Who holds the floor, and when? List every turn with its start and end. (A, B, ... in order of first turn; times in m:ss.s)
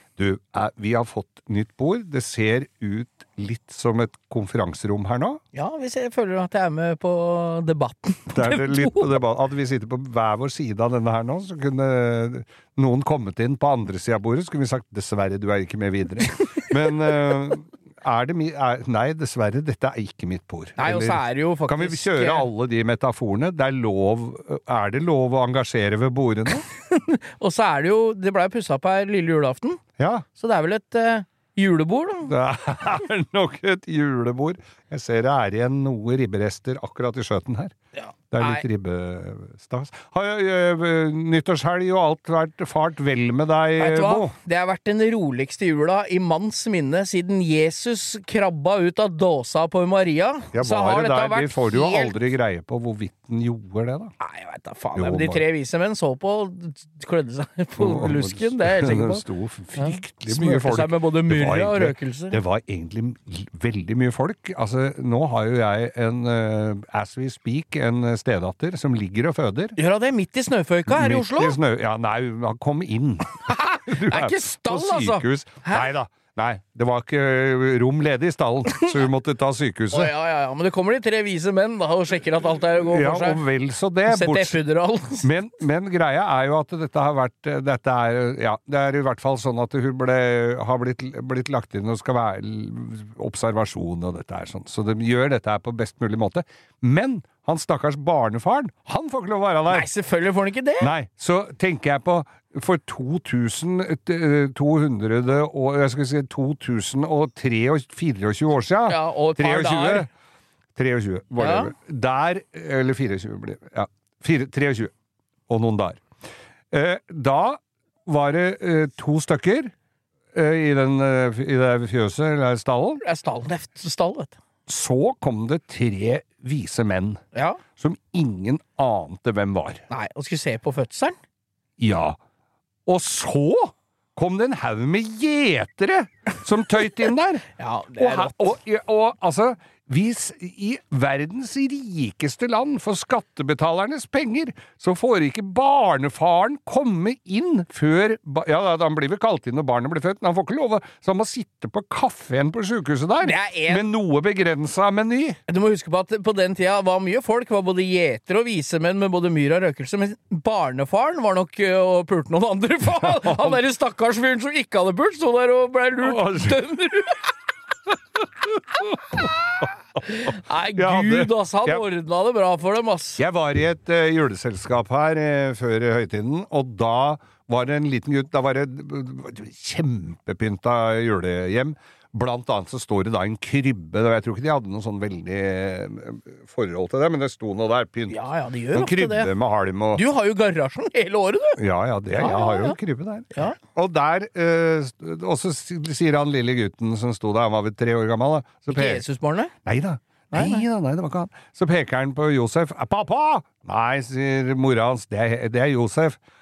0:00.2-0:05.4 A
0:05.5-0:09.1 B
0:08.3-0:26.6 A
0:16.2-0:16.7 B
0:20.8-0:22.5 B
0:26.7-0:29.8 B
0:30.0-0:30.2 A
0:30.4-0:32.4 B
0:32.3-0:37.8 A
0:38.0-0:38.6 B
0:38.3-0:44.3 A
0:43.8-0:52.2 B
0:50.5-0:54.1 A
0:54.2-0:59.2 B
0:55.0-0:55.4 A
0:57.8-1:09.8 A
0:59.8-1:02.4 B
1:09.8-1:11.6 B
1:10.9-1:20.1 A
1:13.5-1:15.9 B
1:19.9-1:23.4 B
1:22.9-1:24.6 A
1:24.1-1:25.3 B
1:25.2-1:39.9 A
1:39.7-1:40.9 B
1:40.8-1:50.1 A
1:48.9-1:50.1 B
1:50.8-1:54.9 A
1:51.4-1:51.7 B
1:55.5-1:56.0 A
1:56.7-1:59.7 A
2:00.3-2:03.0 A
2:03.0-2:04.4 B
2:04.7-2:07.2 A
2:07.3-2:07.6 B
2:07.8-2:09.8 A
2:09.9-2:11.2 B
2:11.8-2:12.2 A
2:12.9-2:17.5 A
2:17.6-2:18.5 B
2:18.0-2:35.4 A
2:33.2-2:33.8 B
2:35.5-2:47.2 B
2:43.0-2:43.6 A
2:46.0-2:46.6 A
2:48.2-2:49.7 A
2:50.0-2:53.2 B
2:50.8-2:51.8 A
2:53.2-3:08.2 A
3:08.1-3:09.3 B
3:08.7-3:10.0 A
3:10.0-3:11.6 B
3:11.6-3:19.0 A
3:12.2-3:12.8 B
3:18.7-3:19.5 B
3:19.6-3:26.2 A
3:20.3-3:20.6 B